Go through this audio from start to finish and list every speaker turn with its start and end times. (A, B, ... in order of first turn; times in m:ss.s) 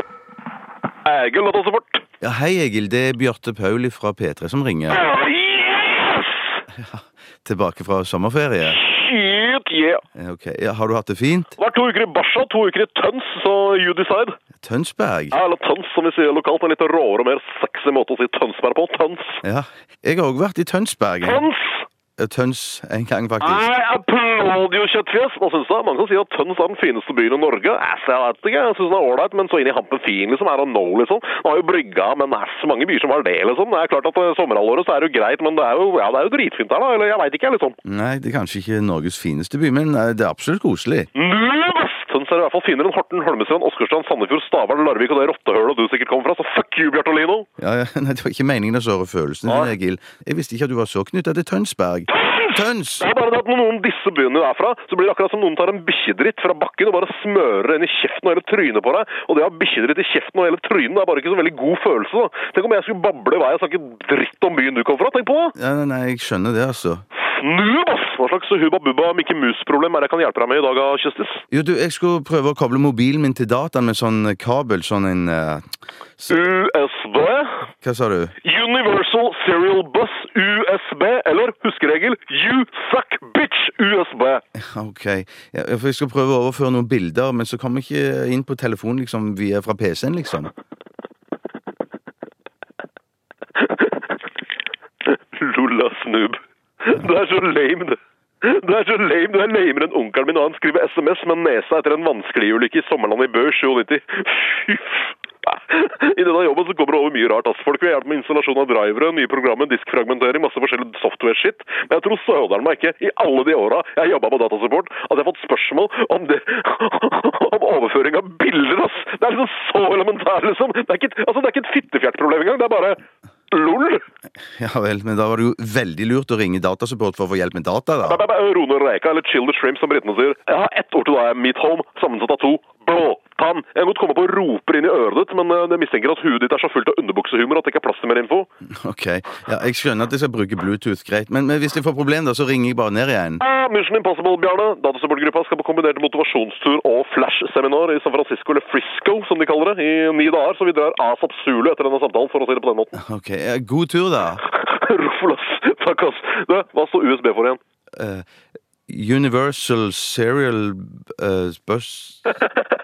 0:01.0-0:02.0 A
0:02.2-0:05.1 B
0:04.9-0:06.6 A
0:06.7-0:08.8 B
0:08.7-0:10.0 A
0:10.2-0:11.5 B
0:11.6-0:14.4 A
0:14.6-0:15.4 B
0:15.3-0:19.4 A
0:19.4-0:21.5 B
0:21.2-0:21.9 A
0:22.2-0:23.7 B
0:23.4-0:37.8 A
0:37.8-0:41.1 B
0:41.1-0:47.5 A
0:47.6-0:53.1 B
0:49.5-0:49.7 A
0:52.1-1:05.5 A
1:05.6-1:07.0 B
1:07.2-1:11.4 A
1:11.5-1:15.6 B
1:16.2-1:16.5 B
1:16.3-1:17.7 A
1:17.8-1:18.3 B
1:18.4-1:24.4 A
1:24.6-1:30.5 B
1:33.6-1:34.2 A
1:35.0-2:04.0 A
2:04.6-2:08.2 B
2:08.0-2:18.5 A
2:18.7-2:23.4 B
2:23.4-2:33.0 A
2:33.0-2:34.4 B
2:34.4-2:37.6 A
2:38.0-2:38.2 B
2:38.9-2:42.3 B
2:42.3-2:42.6 A